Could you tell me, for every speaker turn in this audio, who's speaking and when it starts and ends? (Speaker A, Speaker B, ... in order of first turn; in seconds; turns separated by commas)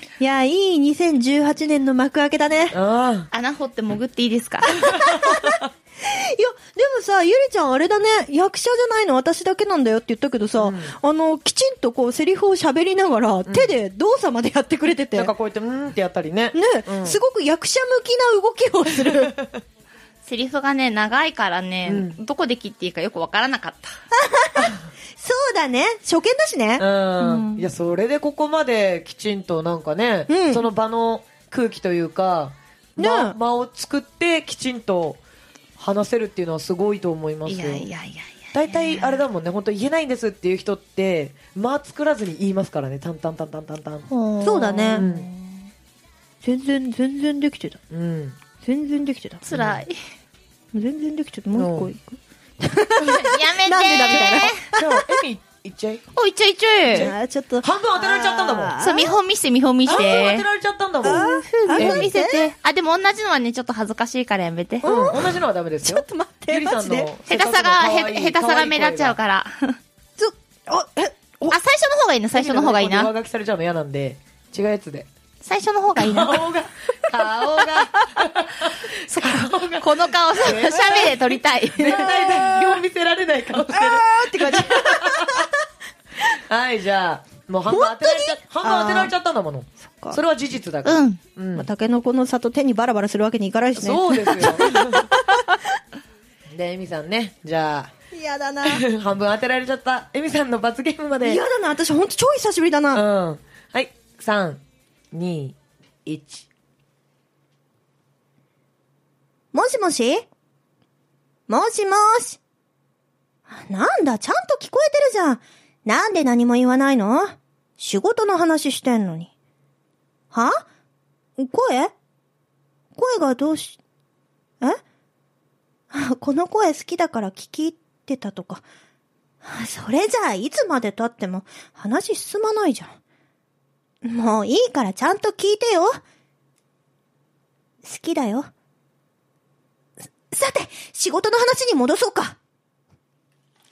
Speaker A: 0.2-2.8, Speaker B: 2.7-3.3, Speaker C: 3.3-4.7, Speaker A: 4.7-15.3, Speaker B: 4.9-5.6, Speaker B: 10.6-10.9, Speaker B: 13.5-13.7, Speaker B: 15.2-17.2, Speaker A: 16.5-19.4, Speaker B: 19.0-19.6, Speaker C: 20.2-23.9, Speaker B: 21.9-22.2, Speaker A: 24.1-27.6, Speaker B: 24.6-24.8, Speaker B: 26.8-35.2, Speaker A: 30.3-30.6, Speaker A: 33.0-33.4, Speaker B: 35.8-37.9, Speaker C: 37.5-39.2, Speaker B: 38.5-44.1, Speaker C: 44.1-45.7, Speaker A: 44.4-45.1, Speaker B: 45.0-45.3, Speaker A: 46.4-47.8, Speaker B: 47.9-48.4, Speaker A: 48.6-49.4, Speaker C: 49.4-50.0, Speaker B: 49.5-49.8, Speaker A: 50.7-55.1, Speaker B: 51.5-51.9, Speaker C: 53.1-54.7, Speaker B: 54.2-56.0, Speaker C: 56.1-57.1, Speaker B: 56.9-58.8, Speaker A: 56.9-59.2, Speaker C: 58.8-60.5, Speaker B: 59.9-62.1, Speaker A: 61.0-62.5, Speaker C: 61.1-64.9, Speaker A: 64.8-67.1, Speaker B: 64.8-69.2, Speaker C: 67.3-69.8, Speaker A: 70.2-71.6, Speaker C: 71.5-73.1, Speaker B: 72.3-75.1, Speaker C: 75.4-76.4, Speaker B: 76.0-81.1, Speaker C: 79.1-82.1, Speaker A: 80.7-81.1, Speaker B: 81.8-85.5, Speaker A: 81.8-82.8, Speaker A: 83.7-85.5, Speaker B: 86.3-91.7, Speaker A: 87.7-89.1, Speaker A: 89.8-90.2, Speaker C: 90.8-91.2, Speaker A: 91.5-95.6, Speaker B: 93.8-95.1, Speaker B: 96.5-97.9, Speaker A: 98.1-98.8, Speaker B: 98.7-101.4, Speaker A: 101.2-103.0, Speaker B: 102.9-106.5, Speaker A: 109.5-110.3, Speaker A: 111.5-112.4, Speaker A: 113.5-119.3, Speaker A: 120.3-120.7, Speaker A: 121.4-121.9, Speaker A: 123.0-123.8, Speaker A: 125.9-128.6, Speaker A: 129.4-133.0, Speaker A: 134.0-136.0, Speaker A: 137.8-138.5, Speaker A: 140.3-142.4